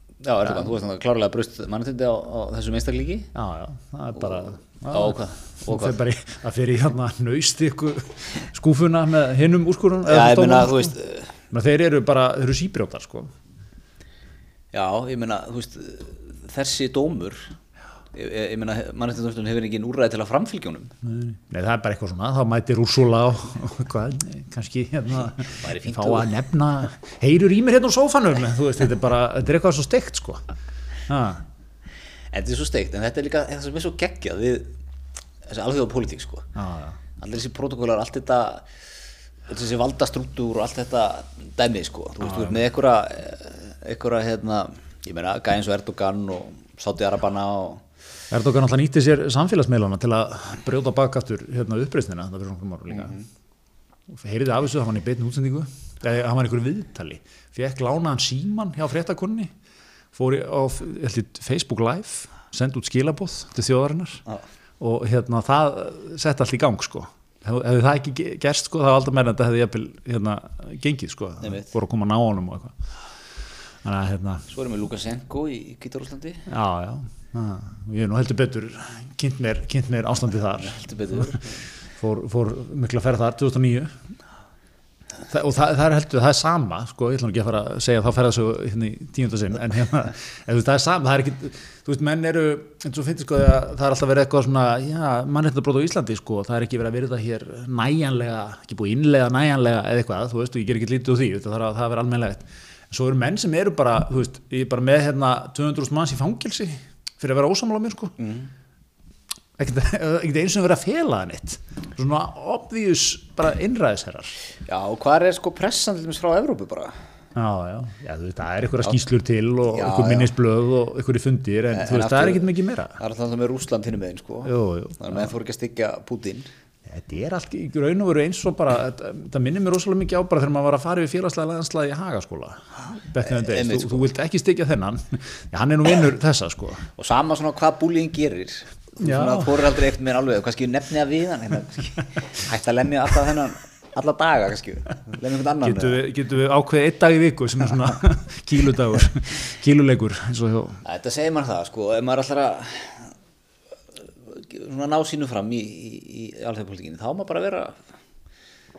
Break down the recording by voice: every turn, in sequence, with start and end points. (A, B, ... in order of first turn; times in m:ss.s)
0:00.2-0:03.3 A
0:03.3-0:10.9 B
0:04.9-0:06.0 A
0:10.0-0:11.3 A
0:11.5-0:13.3 B
0:14.7-0:17.5 A
0:18.1-0:20.9 A
0:21.0-0:30.4 B
0:25.5-0:26.3 A
0:31.1-0:31.4 B
0:32.3-0:34.7 A
0:35.5-0:36.5 A
0:36.5-0:37.0 B
0:37.2-0:38.6 A
0:39.5-0:47.8 A
0:42.2-0:42.6 B
0:48.3-0:53.2 B
0:54.1-0:59.5 B
1:00.1-1:04.2 B
1:04.8-1:12.7 B
1:13.8-1:14.5 B
1:14.5-1:16.5 A
1:16.5-1:21.4 B
1:20.6-1:21.6 A
1:22.0-1:23.9 B
1:25.3-1:48.1 B
1:48.2-1:48.5 A
1:49.6-1:54.3 B
1:54.7-1:56.9 A
1:57.3-2:03.0 B
1:59.7-2:00.3 A
2:01.7-2:06.5 A
2:04.4-2:05.3 B
2:06.9-2:16.8 B
2:13.2-2:14.1 A
2:17.0-2:26.0 A
2:19.0-2:19.6 B
2:25.6-2:30.8 B
2:30.8-2:33.1 A
2:34.3-2:37.8 A